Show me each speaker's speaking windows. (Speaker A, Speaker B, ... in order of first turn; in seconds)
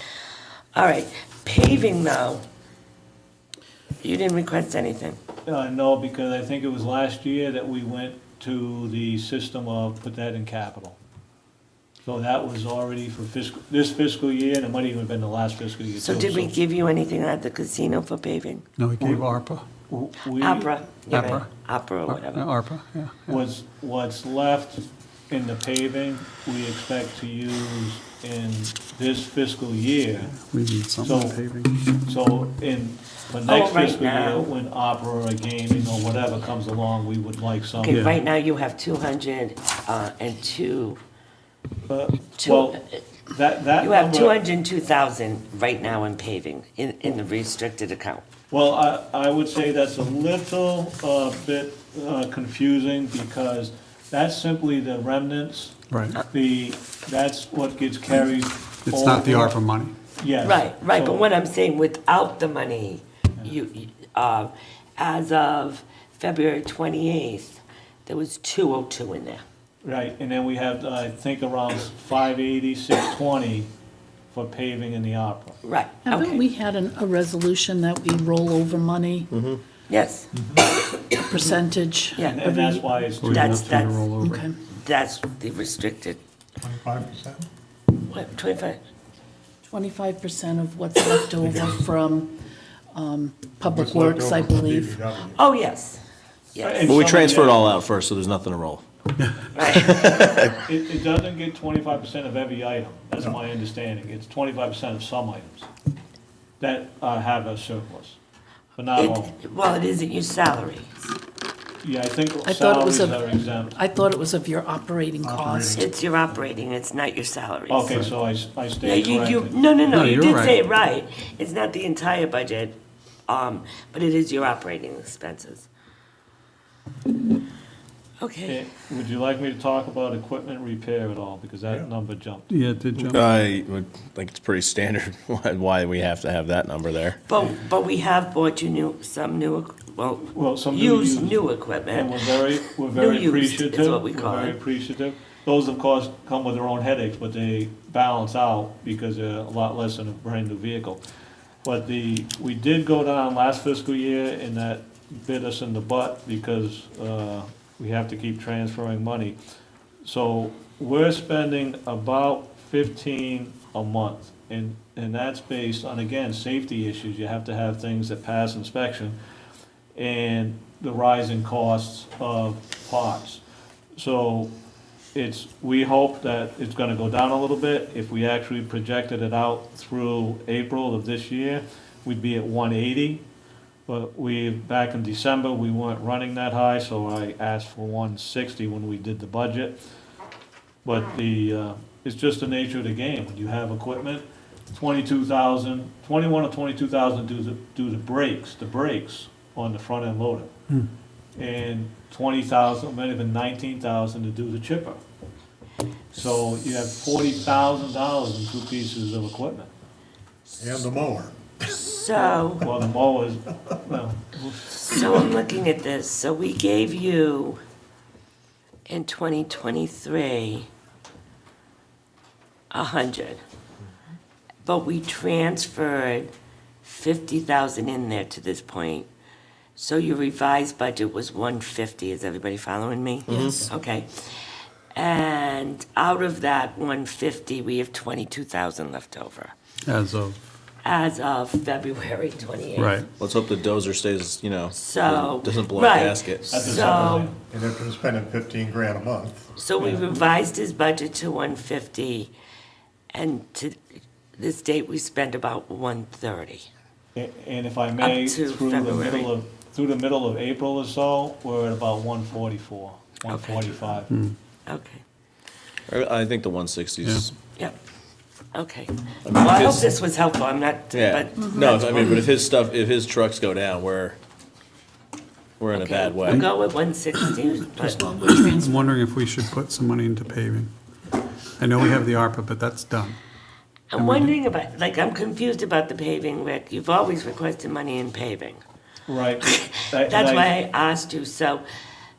Speaker A: 0.8-2.4, 4.0-5.2, 16.0-18.6, 20.4-22.5, 33.5-34.5, 37.8-41.0, 42.4-43.0, 43.8-48.2, 60.4-69.4, 75.6-76.5, 79.9-80.3, 82.2-82.4, 83.3-84.1, 84.7-86.2, 88.1-88.8, 95.4-96.0, 96.5-96.9, 99.5-100.2, 109.0-110.9, 115.7-118.0, 118.8-125.7, 128.2-128.6, 137.3-142.1, 142.8-144.6, 211.7-212.7, 214.8-217.6, 218.9-220.7, 222.7-223.4, 224.6-226.3, 226.8-229.1, 229.8-239.5, 240.8-243.0, 244.7-247.3, 249.6-252.3, 253.1-253.8, 254.4-256.7, 258.0-259.3, 263.3-263.7, 264.7-265.0, 268.5-272.1, 275.7-278.1, 283.9-288.6, 289.6-291.6
Speaker B: 5.5-11.0, 12.1-16.5, 19.0-19.3, 19.9-21.4, 23.3-30.3, 31.0-31.4, 32.0-38.0, 41.9-44.4, 48.5-55.8, 56.3-59.5, 60.2-61.3, 69.8-73.7, 74.3-75.6, 82.3-83.8, 96.6-97.7, 100.5-105.7, 106.6-108.2, 108.8-109.3, 111.8-113.8, 117.7-119.6, 128.5-132.5, 140.2-151.0, 151.6-159.4, 160.1-169.2, 169.9-173.4, 174.0-174.5, 175.2-183.2, 183.9-189.8, 190.8-200.5, 201.4-205.0, 206.1-209.7, 212.2-215.0, 246.5-247.4, 249.8-250.1, 257.1-264.1, 289.1-290.6
Speaker C: 18.8-19.6, 21.1-23.4, 30.2-31.8, 37.9-38.2, 55.9-56.2, 58.9-59.9, 83.2-84.5, 119.9-120.6, 132.5-133.3, 239.9-240.4, 242.8-243.1, 264.1-264.4, 278.5-280.7, 281.6-283.2, 284.0-284.3
Speaker D: 76.0-79.3, 81.1-83.0, 84.2-84.5, 89.7-92.4, 92.9-95.0, 112.4-115.9, 271.4-272.1, 278.4-278.9
Speaker E: 79.3-79.6, 96.9-98.8, 99.8-100.6, 133.0-137.2, 233.3-233.7, 243.2-246.6, 265.9-267.3, 269.2-270.0, 270.9-274.2, 275.6-276.4, 277.8-278.5
Speaker F: 80.3-80.7, 86.6-87.5, 93.7-95.4, 115.2-115.9, 210.6-211.7, 247.5-249.5